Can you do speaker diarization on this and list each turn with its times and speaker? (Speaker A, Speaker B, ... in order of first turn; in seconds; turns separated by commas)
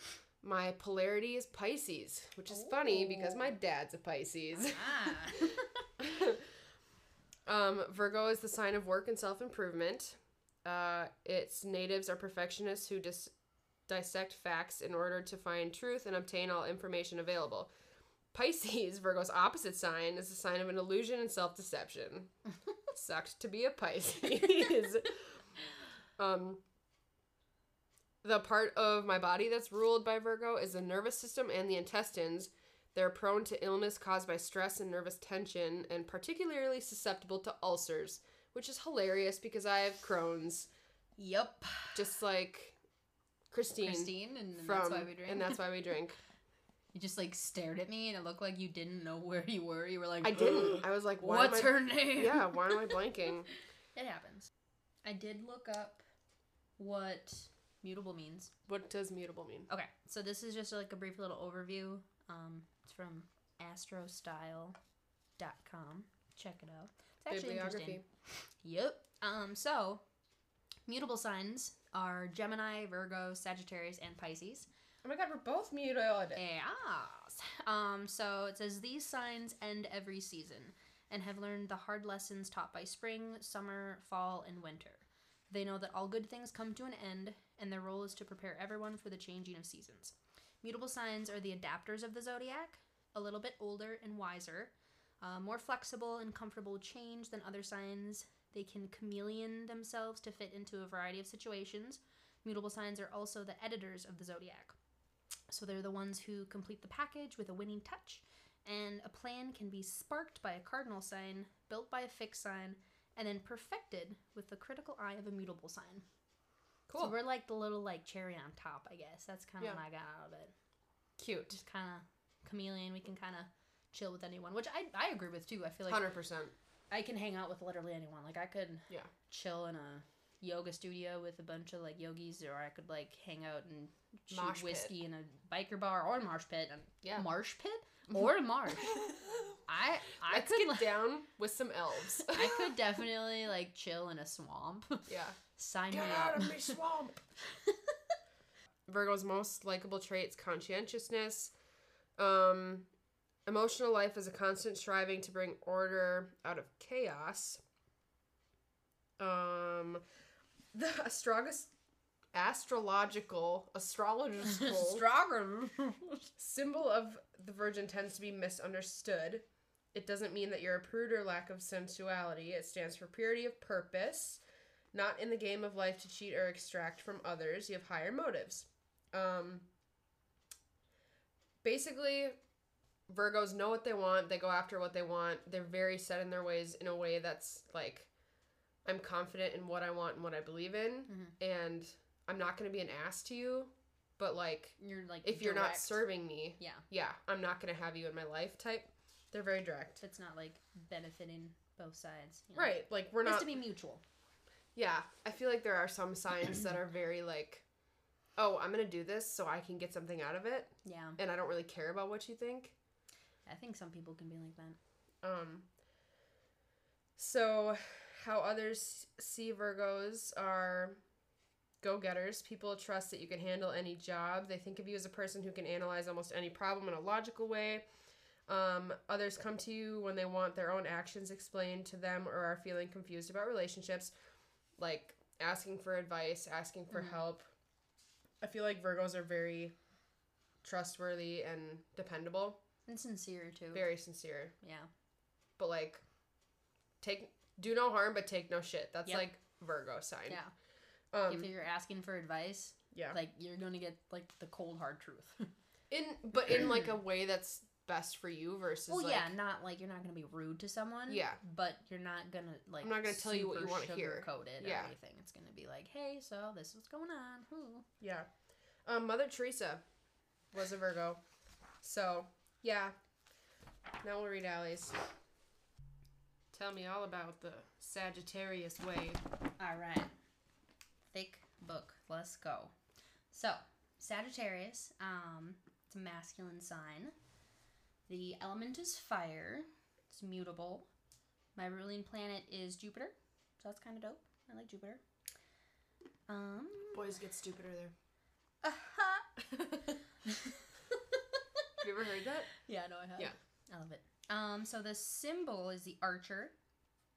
Speaker A: 0.4-5.3, Speaker B: 2.5-3.5, Speaker B: 4.6-5.8, Speaker A: 6.0-6.5, Speaker A: 7.5-13.3, Speaker A: 13.9-17.7, Speaker A: 18.3-22.3, Speaker A: 22.9-25.4, Speaker A: 26.2-26.6, Speaker A: 28.2-40.7, Speaker B: 41.2-42.0, Speaker A: 42.0-42.8, Speaker A: 43.5-46.2, Speaker B: 43.8-45.6, Speaker B: 46.9-53.0, Speaker A: 50.2-53.5, Speaker B: 54.0-54.5, Speaker B: 55.0-56.0, Speaker B: 56.8-58.5, Speaker A: 58.7-59.7, Speaker B: 59.7-64.8, Speaker B: 65.4-68.0, Speaker A: 67.3-68.0, Speaker B: 68.6-70.0, Speaker B: 70.9-74.7, Speaker A: 75.0-76.4, Speaker B: 76.4-104.8, Speaker B: 105.5-116.0, Speaker A: 116.9-117.2, Speaker B: 117.0-120.5, Speaker A: 121.2-121.6, Speaker B: 121.5-126.0, Speaker A: 125.9-126.5, Speaker B: 126.9-139.1, Speaker A: 134.3-134.9, Speaker A: 137.0-137.3, Speaker A: 138.9-139.2, Speaker B: 139.7-141.0, Speaker A: 140.3-142.8, Speaker B: 142.2-146.8, Speaker A: 145.1-145.4, Speaker A: 145.9-147.2, Speaker A: 148.9-151.5, Speaker A: 152.2-152.9, Speaker A: 153.5-157.6, Speaker A: 159.2-160.0, Speaker A: 160.7-161.7, Speaker A: 162.3-165.1, Speaker B: 164.4-166.3, Speaker A: 166.4-174.4, Speaker A: 174.9-179.7, Speaker A: 181.6-182.4, Speaker A: 183.1-188.1, Speaker A: 188.8-200.0, Speaker B: 191.1-191.3, Speaker B: 194.8-196.0, Speaker B: 196.6-196.8, Speaker B: 200.0-204.0, Speaker A: 202.6-203.5, Speaker A: 204.8-207.6, Speaker A: 208.4-212.8, Speaker B: 210.8-211.2, Speaker B: 213.5-214.8, Speaker A: 215.2-215.7, Speaker A: 217.2-221.0, Speaker A: 221.8-227.8, Speaker A: 228.5-234.1, Speaker A: 234.8-237.5, Speaker B: 236.9-237.2, Speaker A: 238.4-239.8, Speaker A: 240.6-242.6, Speaker B: 242.9-243.9, Speaker A: 243.7-244.6, Speaker B: 244.6-244.9, Speaker A: 245.6-246.0, Speaker A: 247.0-250.4, Speaker A: 251.1-251.5, Speaker B: 251.3-255.5, Speaker A: 252.9-253.2, Speaker A: 255.9-259.3, Speaker B: 258.9-267.9, Speaker A: 261.1-261.4, Speaker A: 262.8-264.9, Speaker A: 268.0-268.3, Speaker A: 268.9-269.8, Speaker A: 270.5-271.2, Speaker A: 271.8-272.9, Speaker A: 274.0-275.0, Speaker A: 276.5-279.2, Speaker B: 279.6-280.1, Speaker B: 281.1-282.7, Speaker B: 283.3-287.1, Speaker B: 288.1-290.9, Speaker B: 291.6-295.0, Speaker B: 296.3-297.1, Speaker A: 296.9-297.9, Speaker B: 298.6-299.3, Speaker A: 299.5-299.9, Speaker B: 300.3-301.6, Speaker A: 301.8-302.5, Speaker B: 302.6-306.5